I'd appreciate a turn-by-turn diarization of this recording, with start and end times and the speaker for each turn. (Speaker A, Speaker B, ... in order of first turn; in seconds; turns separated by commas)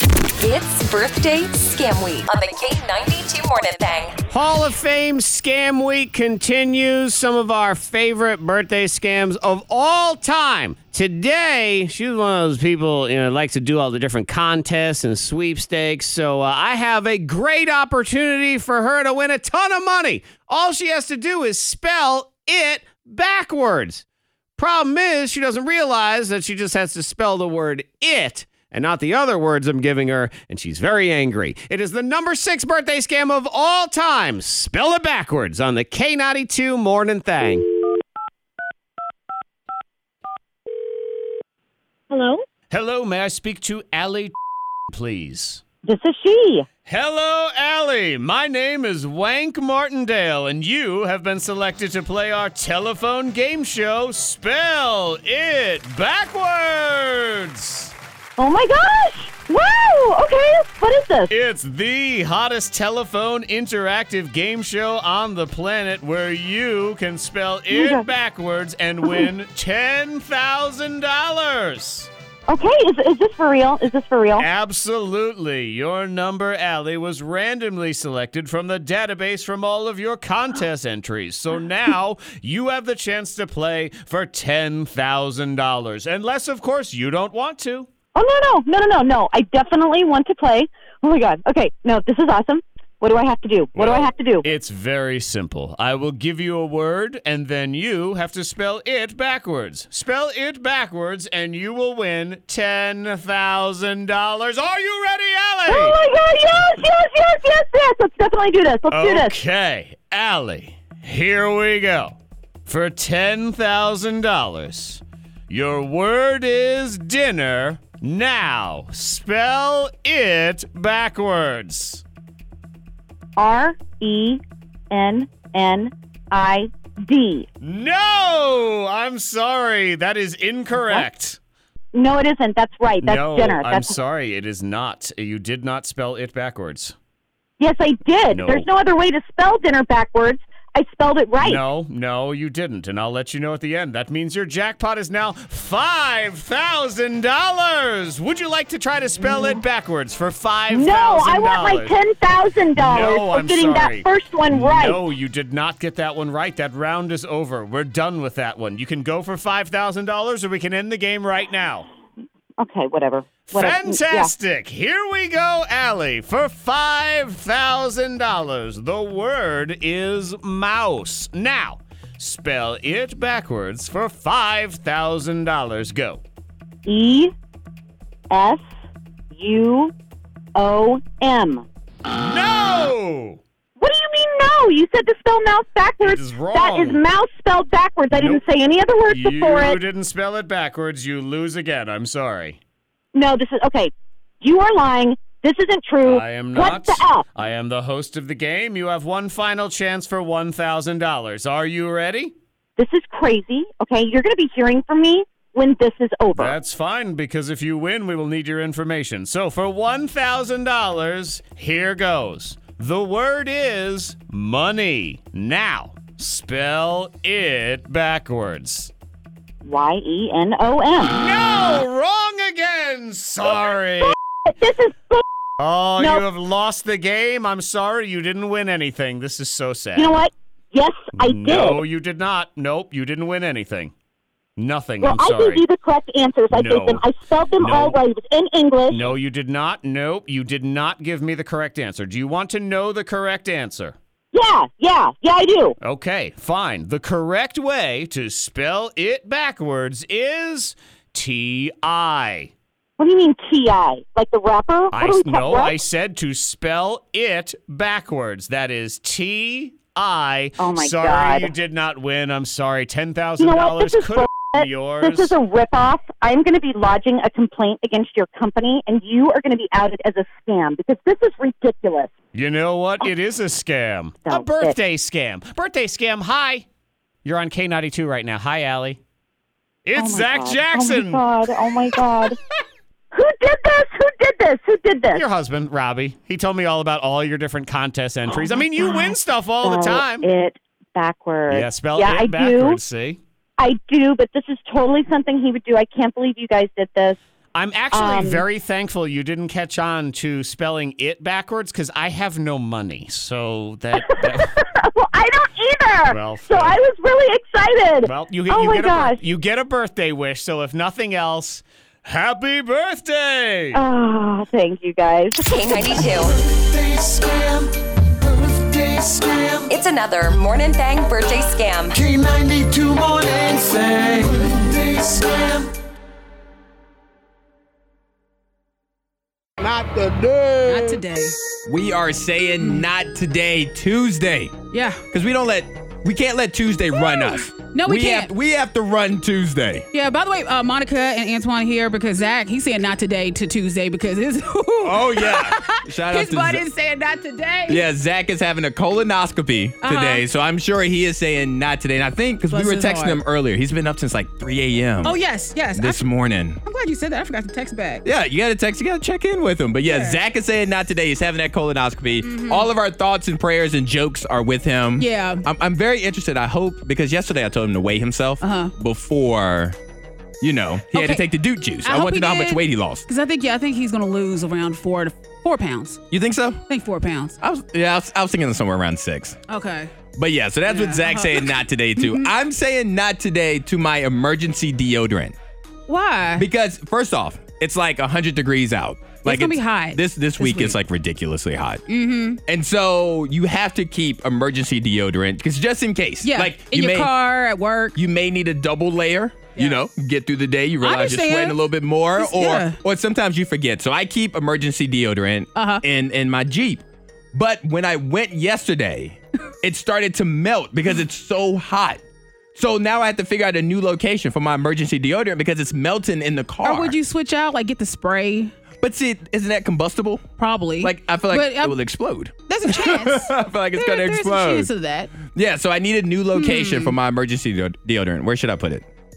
Speaker A: 0.4-4.2, Speaker B: 4.3-24.0, Speaker B: 24.6-37.7, Speaker C: 42.1-42.4, Speaker B: 42.7-44.3, Speaker B: 44.9-45.6, Speaker C: 45.8-46.6, Speaker B: 46.9-57.9, Speaker C: 58.4-61.3, Speaker B: 61.3-72.1, Speaker C: 67.7-68.1, Speaker C: 72.5-74.5, Speaker B: 74.4-87.9, Speaker C: 88.1-94.5, Speaker B: 93.7-106.0, Speaker C: 105.7-109.3, Speaker B: 108.9-122.0, Speaker C: 123.4-127.5, Speaker B: 127.6-131.4, Speaker C: 131.9-133.9, Speaker B: 133.0-136.9, Speaker C: 137.6-141.6, Speaker B: 138.3-138.7, Speaker B: 141.4-151.9, Speaker C: 149.2-149.6, Speaker C: 150.7-155.0, Speaker B: 152.7-161.9, Speaker C: 162.6-164.3, Speaker B: 163.5-176.2, Speaker C: 176.8-177.3, Speaker C: 178.3-178.6, Speaker C: 179.3-179.9, Speaker C: 180.5-181.6, Speaker B: 182.1-183.4, Speaker C: 183.8-189.8, Speaker B: 186.0-187.0, Speaker B: 188.1-188.4, Speaker B: 189.1-192.6, Speaker C: 193.1-197.2, Speaker B: 196.0-202.3, Speaker C: 202.8-206.5, Speaker B: 206.3-218.9, Speaker C: 219.6-221.2, Speaker B: 221.0-224.2, Speaker C: 224.0-225.2, Speaker B: 225.6-230.2, Speaker C: 226.0-226.2, Speaker C: 229.9-231.8, Speaker B: 231.1-233.9, Speaker B: 234.6-235.6, Speaker C: 235.0-239.1, Speaker B: 236.5-237.0, Speaker B: 237.6-238.0, Speaker B: 238.9-243.9, Speaker C: 244.3-245.7, Speaker B: 245.8-252.5, Speaker C: 253.0-255.8, Speaker B: 254.9-265.4, Speaker C: 260.6-261.5, Speaker C: 263.4-272.1, Speaker B: 272.3-276.6, Speaker C: 274.3-274.7, Speaker B: 277.2-279.0, Speaker B: 279.9-281.3, Speaker C: 279.9-282.4, Speaker C: 283.1-285.2, Speaker B: 285.1-290.3, Speaker C: 288.3-292.8, Speaker B: 291.5-293.2, Speaker C: 293.6-297.2, Speaker B: 297.5-304.5, Speaker C: 297.9-298.4, Speaker C: 304.2-309.2, Speaker B: 306.1-306.8, Speaker B: 308.0-313.8, Speaker C: 313.7-315.6, Speaker A: 315.4-316.3, Speaker D: 315.8-319.7, Speaker A: 319.7-322.0, Speaker D: 321.9-325.7, Speaker D: 329.6-331.0, Speaker E: 330.6-331.3, Speaker F: 331.6-334.5, Speaker E: 332.6-332.9, Speaker E: 334.7-335.0, Speaker F: 335.1-339.9, Speaker E: 336.9-338.3, Speaker E: 339.9-347.8, Speaker F: 344.8-346.6, Speaker F: 347.7-355.2, Speaker E: 349.8-350.2, Speaker E: 352.5-353.2, Speaker E: 355.0-356.0, Speaker F: 355.7-356.6, Speaker E: 356.6-358.0, Speaker F: 358.0-369.8, Speaker E: 359.9-360.2, Speaker E: 362.2-362.7, Speaker E: 365.0-365.4, Speaker E: 368.4-368.7, Speaker F: 370.4-373.0, Speaker E: 370.9-371.2, Speaker E: 371.8-376.0, Speaker F: 376.1-376.6, Speaker E: 376.7-377.4, Speaker F: 377.4-379.4, Speaker E: 379.5-379.9, Speaker F: 380.1-385.4, Speaker E: 380.6-382.3, Speaker E: 385.9-386.5, Speaker F: 386.4-391.8, Speaker E: 389.2-390.8, Speaker E: 391.9-392.4, Speaker F: 392.5-397.1, Speaker E: 396.2-397.9, Speaker F: 397.9-406.8, Speaker E: 400.8-401.6, Speaker E: 402.2-402.8, Speaker E: 405.6-405.8, Speaker F: 407.3-412.0, Speaker F: 412.5-416.9, Speaker E: 416.6-418.5, Speaker F: 418.8-420.2, Speaker E: 420.4-421.8, Speaker F: 420.8-424.7, Speaker E: 422.5-425.1, Speaker F: 425.2-428.9, Speaker E: 426.3-426.9